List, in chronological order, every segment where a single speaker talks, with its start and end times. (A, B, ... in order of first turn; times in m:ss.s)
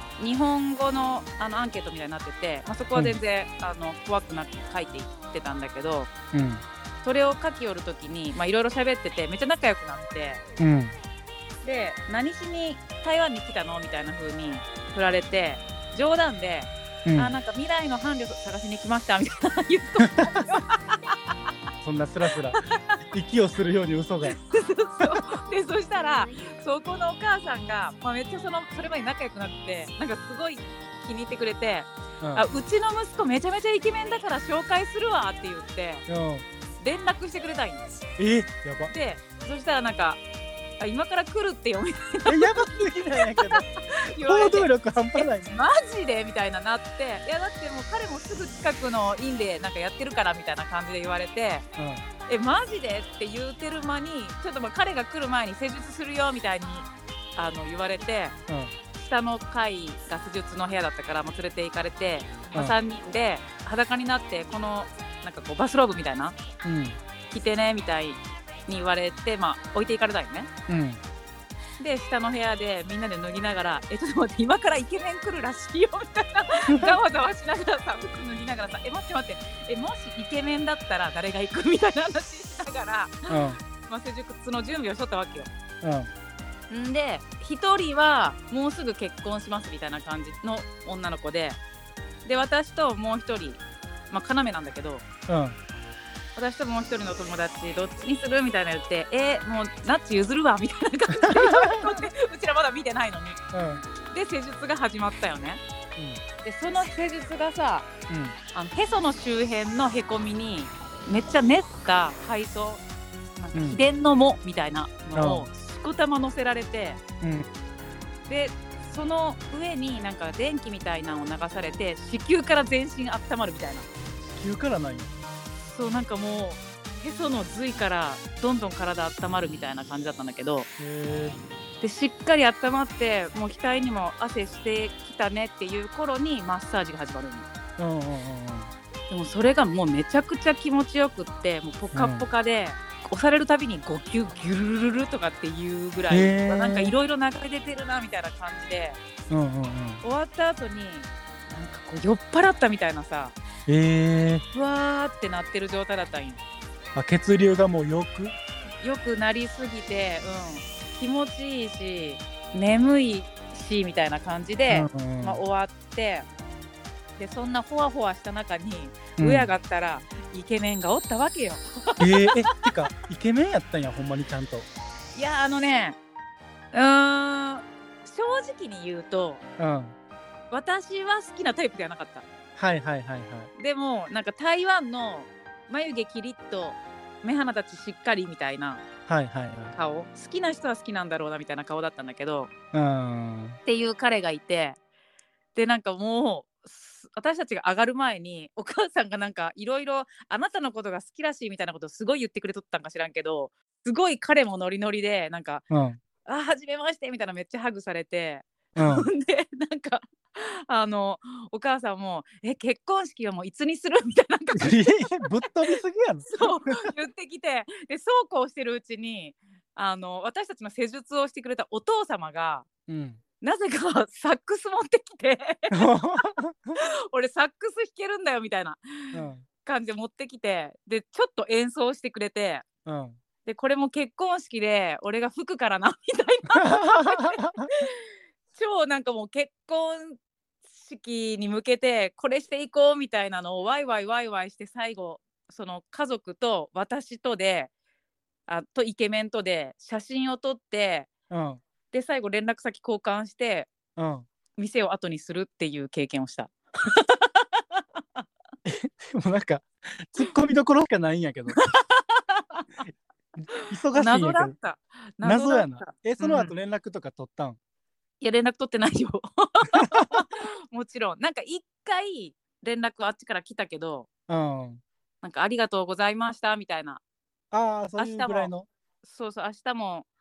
0:00.2-0:06.1 A
0:06.3-0:06.6 B
0:07.0-0:10.4 A
0:10.6-0:11.0 B
0:11.6-0:21.1 A
0:17.0-0:17.3 B
0:20.0-0:20.4 B
0:21.8-0:22.6 B
0:23.1-0:24.4 B
0:24.3-0:36.0 A
0:32.2-0:32.5 B
0:36.1-0:36.5 B
0:36.8-0:37.9 A
0:38.2-0:38.9 B
0:38.9-0:40.2 A
0:40.8-0:42.7 A
0:42.2-0:43.6 B
0:43.2-0:51.7 A
0:44.2-0:45.5 B
0:51.8-0:52.0 B
0:52.3-0:58.4 A
0:58.5-0:58.7 B
0:58.9-1:06.4 A
1:06.6-1:07.0 B
1:07.3-1:10.5 A
1:10.7-1:11.0 B
1:11.8-1:25.5 A
1:16.7-1:17.0 B
1:23.3-1:23.6 B
1:25.8-1:26.1 B
1:26.7-1:31.6 A
1:32.2-1:35.0 A
1:35.3-1:35.6 B
1:36.4-1:43.4 A
1:41.2-1:42.0 B
1:43.5-1:43.8 B
1:44.1-1:45.6 A
1:46.0-1:46.2 B
1:46.4-1:47.9 A
1:48.1-1:48.4 B
1:48.5-1:52.8 A
1:53.4-1:57.0 A
1:53.5-1:53.8 B
1:55.1-1:55.5 B
1:57.2-1:57.5 B
1:58.3-2:03.9 A
2:04.2-2:05.1 B
2:05.6-2:10.7 A
2:10.8-2:11.4 B
2:11.8-2:17.5 A
2:17.8-2:18.7 B
2:19.1-2:29.0 A
2:21.9-2:22.3 B
2:26.1-2:26.9 B
2:29.3-2:30.0 B
2:30.0-2:33.4 A
2:33.7-2:34.4 B
2:34.5-2:36.4 A
2:37.0-2:38.4 B
2:38.8-2:46.2 A
2:44.7-2:45.4 B
2:47.2-2:52.4 A
2:49.2-2:49.5 B
2:52.0-2:54.7 B
2:55.1-2:56.0 A
2:56.7-2:59.4 A
2:59.6-3:00.0 B
3:00.5-3:02.2 A
3:02.6-3:03.5 B
3:03.6-3:08.8 A
3:09.1-3:09.8 B
3:09.7-3:12.5 A
3:12.7-3:13.6 B
3:13.6-3:14.8 A
3:15.5-3:25.6 A
3:25.7-3:26.0 B
3:26.2-3:35.1 A
3:28.8-3:29.1 B
3:34.6-3:36.9 B
3:36.3-3:42.6 A
3:42.9-3:43.2 B
3:43.4-3:45.8 A
3:45.7-3:46.8 B
3:46.8-3:49.1 A
3:49.1-3:49.4 B
3:49.6-3:52.6 A
3:52.9-3:53.2 B
3:53.5-3:57.9 A
3:56.5-3:57.7 B
3:58.5-4:07.7 A
4:08.5-4:11.1 A
4:11.3-4:11.6 B
4:11.9-4:13.7 A
4:14.0-4:14.3 B
4:14.6-4:18.2 A
4:18.6-4:21.6 B
4:21.6-4:22.7 A
4:23.4-4:24.5 B
4:23.9-4:26.5 A
4:25.2-4:27.6 B
4:28.2-4:34.1 A
4:29.7-4:30.2 B
4:34.3-4:34.8 B
4:35.2-4:37.0 A
4:37.5-4:38.7 B
4:38.0-4:38.5 A
4:39.0-4:40.0 A